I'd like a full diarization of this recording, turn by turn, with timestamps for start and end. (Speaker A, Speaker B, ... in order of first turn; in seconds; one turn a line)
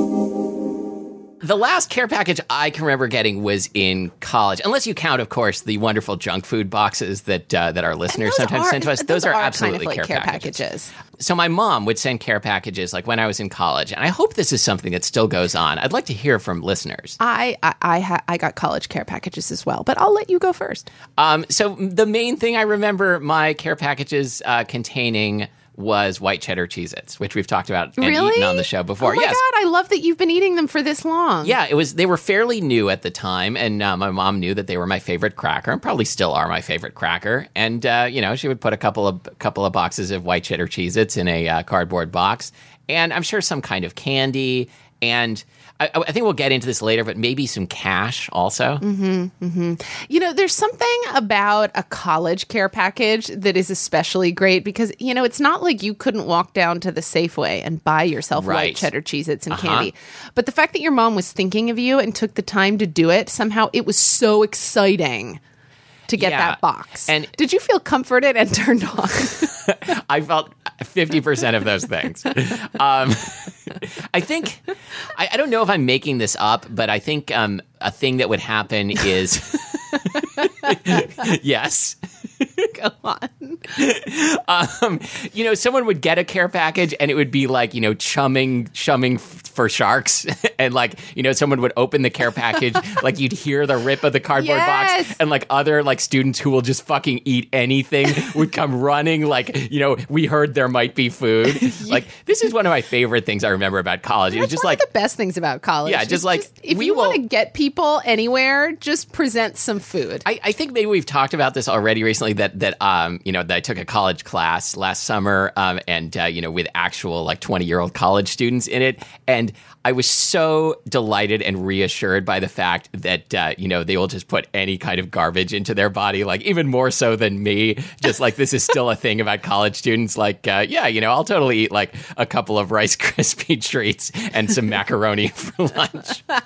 Speaker A: 1.4-10.6
Speaker B: 8.1-10.9
Speaker A: 11.2-17.2
Speaker B: 17.2-20.9
Speaker A: 21.2-29.4
Speaker B: 28.0-31.6
Speaker A: 31.4-48.8
Speaker B: 48.8-65.4
Speaker A: 58.4-58.9
Speaker A: 59.5-59.9
Speaker B: 66.1-69.5
Speaker A: 66.2-67.3
Speaker A: 69.4-74.6
Speaker A: 75.1-82.7
Speaker B: 82.7-83.7
Speaker A: 83.7-104.8
Speaker B: 94.3-95.2
Speaker B: 101.7-102.0
Speaker B: 104.3-110.2
Speaker A: 105.8-107.2
Speaker A: 110.2-136.2